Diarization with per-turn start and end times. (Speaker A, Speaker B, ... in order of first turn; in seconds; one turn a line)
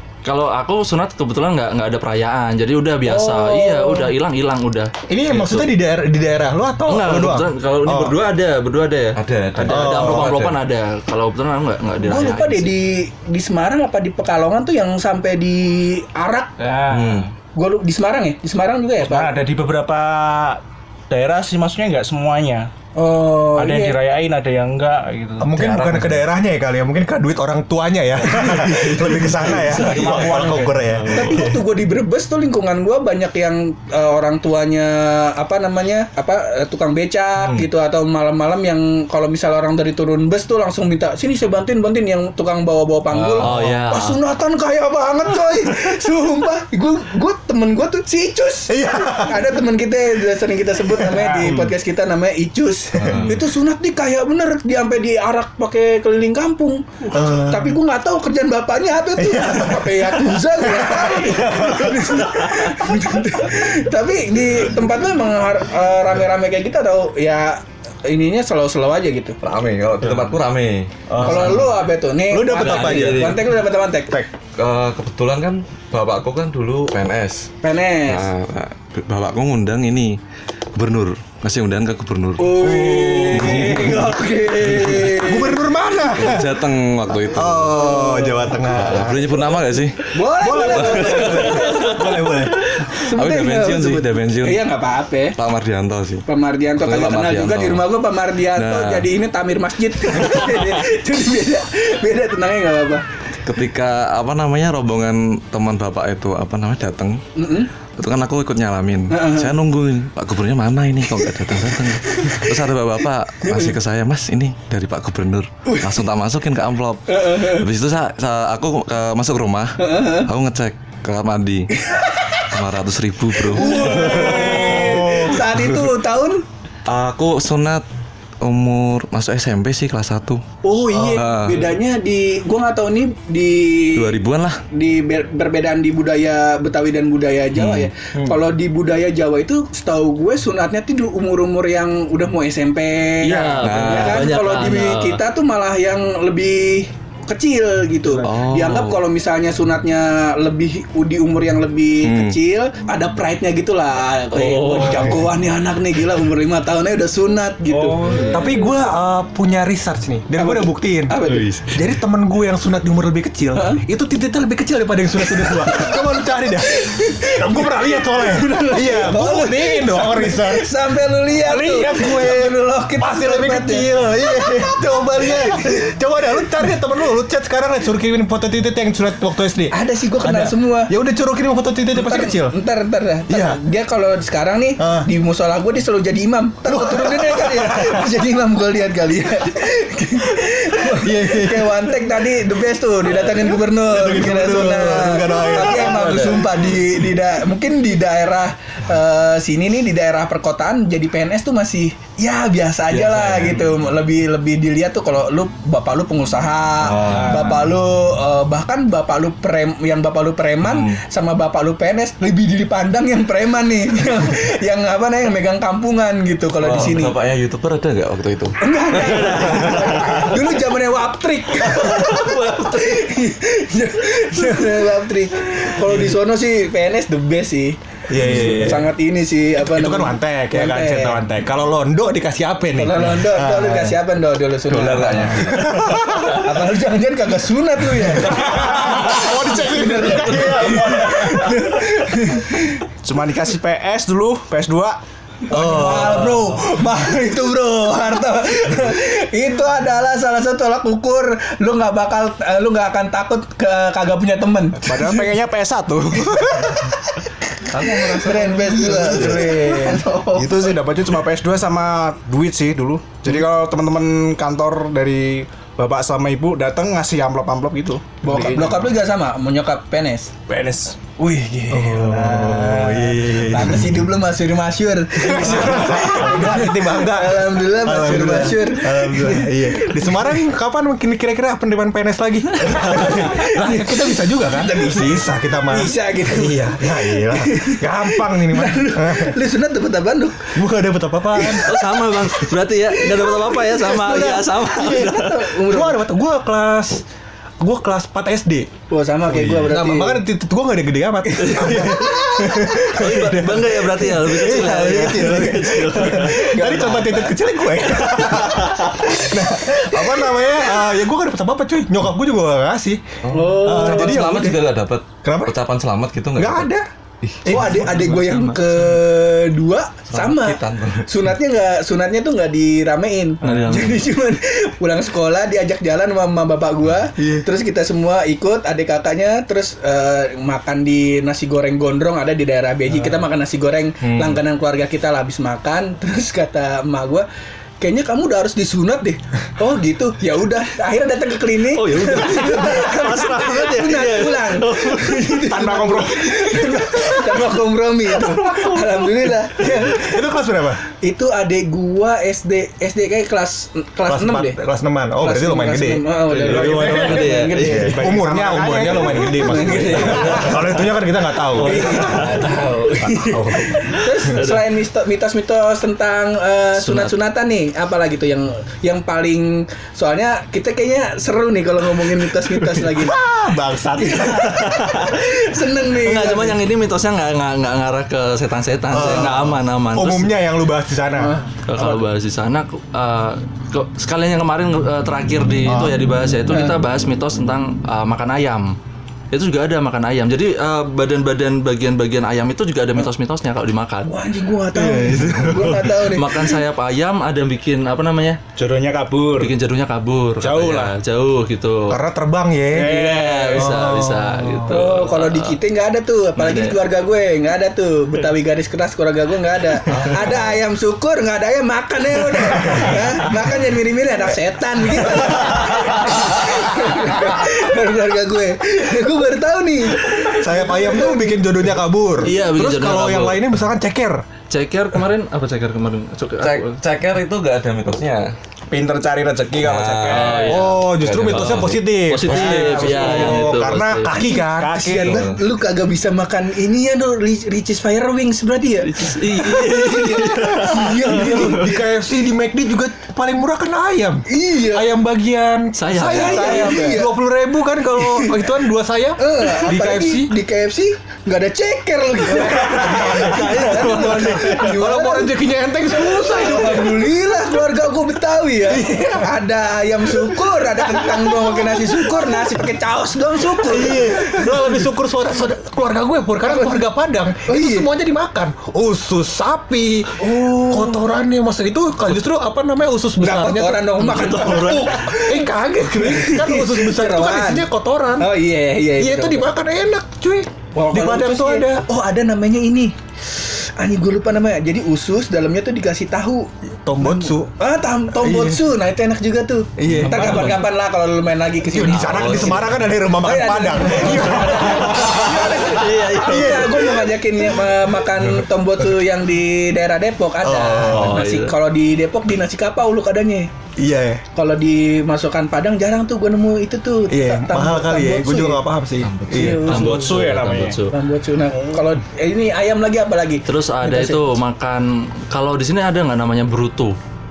Speaker A: 0.2-5.7
Speaker B: 3.0-4.1
Speaker C: 5.1-8.2
Speaker A: 6.9-12.7
Speaker D: 9.2-10.6
Speaker C: 9.7-10.4
Speaker B: 12.0-16.5
Speaker E: 16.6-17.3
Speaker D: 16.9-17.3
Speaker B: 17.5-19.4
Speaker E: 19.0-22.7
Speaker B: 22.9-24.0
Speaker E: 23.6-25.6
Speaker C: 25.4-31.6
Speaker D: 25.5-26.2
Speaker E: 28.4-31.0
Speaker A: 29.8-30.5
Speaker D: 29.8-30.1
Speaker B: 31.1-69.4
Speaker D: 37.4-37.6
Speaker E: 43.3-43.7
Speaker A: 43.4-44.2
Speaker C: 48.7-49.5
Speaker C: 51.0-51.5
Speaker E: 51.1-51.7
Speaker C: 53.0-53.3
Speaker D: 53.0-53.4
Speaker C: 57.1-57.8
Speaker C: 59.1-62.2
Speaker D: 69.4-71.7
Speaker C: 71.1-71.7
Speaker A: 71.2-71.6
Speaker B: 71.2-74.2
Speaker C: 72.3-73.4
Speaker A: 72.5-73.5
Speaker D: 74.6-77.5
Speaker B: 77.6-78.3
Speaker D: 78.1-80.2
Speaker D: 80.7-85.1
Speaker B: 82.4-85.6
Speaker C: 82.6-84.1
Speaker C: 84.7-86.6
Speaker D: 86.2-88.0
Speaker C: 87.3-89.5
Speaker B: 87.7-88.5
Speaker D: 88.7-90.1
Speaker B: 90.1-95.4
Speaker C: 90.3-92.7
Speaker D: 90.6-91.2
Speaker A: 91.2-92.3
Speaker D: 93.0-94.6
Speaker D: 95.3-96.2
Speaker B: 96.2-103.0
Speaker D: 96.8-97.8
Speaker D: 98.5-99.1
Speaker D: 103.5-107.2
Speaker B: 107.3-107.7
Speaker D: 108.0-121.8
Speaker B: 109.1-109.5
Speaker B: 112.1-112.5
Speaker B: 113.4-113.8
Speaker B: 115.7-116.0
Speaker B: 117.1-117.6
Speaker B: 119.8-120.3
Speaker B: 121.8-122.5
Speaker D: 122.5-125.1
Speaker B: 123.4-126.4
Speaker C: 123.6-125.7
Speaker D: 126.8-127.8
Speaker D: 128.4-130.4
Speaker B: 130.6-134.2
Speaker C: 130.9-131.2
Speaker D: 131.1-131.6
Speaker D: 133.9-134.6
Speaker B: 134.7-158.6
Speaker D: 137.5-137.9
Speaker A: 143.2-145.2
Speaker D: 143.6-144.3
Speaker D: 148.2-149.0
Speaker D: 152.0-152.4
Speaker A: 154.3-155.2
Speaker E: 157.7-158.6
Speaker C: 158.3-170.7
Speaker B: 160.4-161.5
Speaker D: 161.2-161.6
Speaker B: 163.5-163.8
Speaker B: 165.3-176.4
Speaker C: 171.5-182.6
Speaker E: 171.5-171.8
Speaker B: 179.7-180.9
Speaker B: 181.9-217.1
Speaker C: 183.3-183.6
Speaker C: 184.8-185.1
Speaker C: 186.6-188.2
Speaker C: 190.8-191.9
Speaker C: 193.9-196.9
Speaker A: 195.7-196.4
Speaker A: 203.0-203.6
Speaker D: 203.2-203.6
Speaker D: 206.8-207.7
Speaker D: 210.6-211.0
Speaker D: 216.6-218.6
Speaker B: 218.6-227.7
Speaker A: 218.9-220.3
Speaker A: 221.6-223.0
Speaker C: 228.1-228.9
Speaker D: 228.2-228.8
Speaker B: 228.3-231.2
Speaker C: 229.7-234.0
Speaker B: 232.8-242.8
Speaker D: 234.7-235.9
Speaker C: 235.3-236.4
Speaker C: 238.0-241.7
Speaker E: 243.0-245.0
Speaker B: 245.5-254.9
Speaker C: 245.5-246.4
Speaker E: 254.8-256.9
Speaker B: 256.3-260.7
Speaker D: 257.8-258.1
Speaker A: 258.4-258.6
Speaker E: 258.4-268.9
Speaker C: 258.8-259.9
Speaker B: 268.2-270.3
Speaker E: 270.5-271.0
Speaker B: 271.2-280.4
Speaker C: 271.7-274.1
Speaker C: 275.2-289.3
Speaker B: 282.8-290.5
Speaker C: 290.5-292.2
Speaker B: 291.4-291.8
Speaker A: 291.6-295.5
Speaker C: 293.9-297.0
Speaker B: 293.9-296.0
Speaker C: 297.6-298.7
Speaker B: 298.9-300.2
Speaker C: 299.3-314.6
Speaker B: 301.3-302.2
Speaker A: 301.4-306.8
Speaker B: 306.2-307.4
Speaker B: 308.0-310.5
Speaker D: 313.2-316.7
Speaker B: 313.3-314.6
Speaker C: 315.2-315.5
Speaker C: 316.4-316.9
Speaker D: 317.2-317.5
Speaker C: 317.4-318.1
Speaker B: 317.5-337.2
Speaker A: 317.6-318.9
Speaker D: 320.1-321.1
Speaker A: 323.4-324.1
Speaker D: 323.5-323.8
Speaker C: 327.2-327.4
Speaker C: 334.0-334.4
Speaker B: 337.8-350.2
Speaker A: 341.7-345.4
Speaker E: 345.3-346.8
Speaker A: 348.1-349.0
Speaker C: 349.6-350.8
Speaker B: 351.0-354.6
Speaker C: 354.1-362.3
Speaker B: 355.2-358.0
Speaker E: 356.3-360.4
Speaker A: 356.4-357.9
Speaker B: 359.1-360.8
Speaker A: 361.5-362.5
Speaker B: 361.6-373.2
Speaker C: 363.0-363.9
Speaker A: 364.3-364.6
Speaker A: 366.8-367.1
Speaker C: 372.9-374.9
Speaker B: 374.0-376.6
Speaker A: 374.4-375.2
Speaker A: 375.9-380.3
Speaker C: 378.9-381.3
Speaker B: 381.2-382.0
Speaker A: 381.7-388.7
Speaker C: 385.6-386.0
Speaker B: 386.5-386.8
Speaker A: 389.3-394.1
Speaker B: 394.1-396.6
Speaker C: 394.7-395.9
Speaker A: 396.0-398.4
Speaker E: 398.6-399.5
Speaker A: 399.4-402.0
Speaker E: 400.4-400.9
Speaker C: 401.9-403.0
Speaker E: 402.7-403.8
Speaker A: 402.9-405.6
Speaker C: 403.5-404.8
Speaker B: 404.7-421.5
Speaker A: 406.4-406.8
Speaker D: 409.9-410.3
Speaker C: 412.5-413.0
Speaker C: 414.9-417.1
Speaker C: 420.4-424.2
Speaker A: 422.2-423.4
Speaker A: 424.5-426.8
Speaker D: 426.4-428.3
Speaker E: 428.7-430.5
Speaker D: 429.5-433.8
Speaker A: 430.1-434.1
Speaker C: 430.4-435.3
Speaker E: 432.4-433.1
Speaker E: 434.4-435.2
Speaker B: 434.8-441.7
Speaker D: 435.0-435.4
Speaker A: 438.8-441.7
Speaker C: 440.4-450.3
Speaker B: 444.3-444.9
Speaker A: 445.8-446.9
Speaker B: 446.1-447.1
Speaker B: 447.9-448.4
Speaker B: 449.2-455.3
Speaker C: 452.3-457.3
Speaker A: 452.4-454.6
Speaker B: 456.1-464.8
Speaker C: 458.7-459.3
Speaker C: 460.1-462.6
Speaker C: 463.6-478.3
Speaker B: 466.4-466.8
Speaker B: 467.5-467.9
Speaker B: 470.2-471.0
Speaker B: 473.2-477.6
Speaker A: 474.0-475.0
Speaker B: 478.2-479.5
Speaker C: 479.0-481.8
Speaker B: 480.7-486.5
Speaker C: 486.8-487.5
Speaker B: 487.0-503.5
Speaker C: 488.2-488.7
Speaker C: 489.8-490.6
Speaker A: 489.9-490.6
Speaker C: 491.7-498.4
Speaker D: 492.0-492.7
Speaker A: 495.7-496.9
Speaker C: 500.4-501.2
Speaker A: 500.9-501.5
Speaker C: 503.8-504.2
Speaker B: 504.3-508.6
Speaker C: 507.1-509.7
Speaker D: 509.0-509.6
Speaker B: 509.3-510.2
Speaker E: 509.7-510.8
Speaker A: 509.7-510.9
Speaker B: 510.9-514.2
Speaker A: 513.5-517.0